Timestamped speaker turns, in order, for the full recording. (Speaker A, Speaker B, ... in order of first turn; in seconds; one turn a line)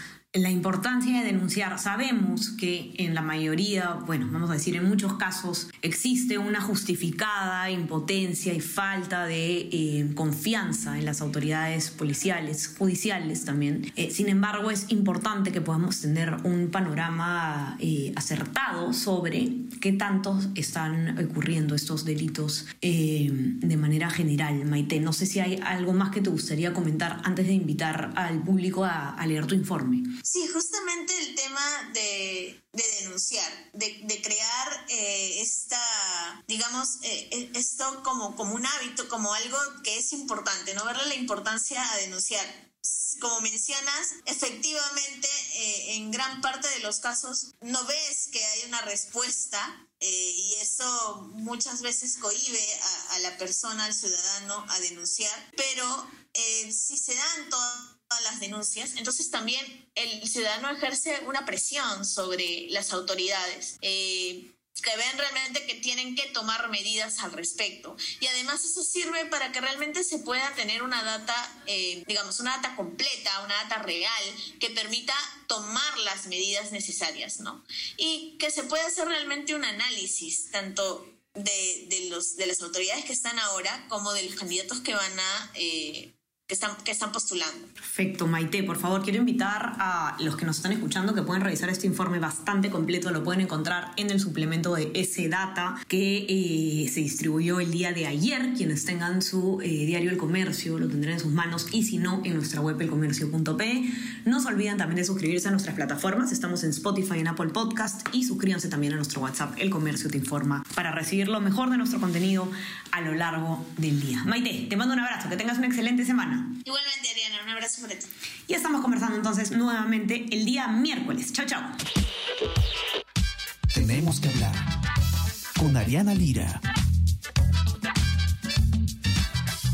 Speaker A: 0.3-30.0
Speaker B: 30.2-87.7
Speaker A: 87.8-116.5
Speaker B: 116.6-118.1
Speaker A: 118.5-121.7
Speaker C: 123.7-124.6
Speaker C: 125.6-126.6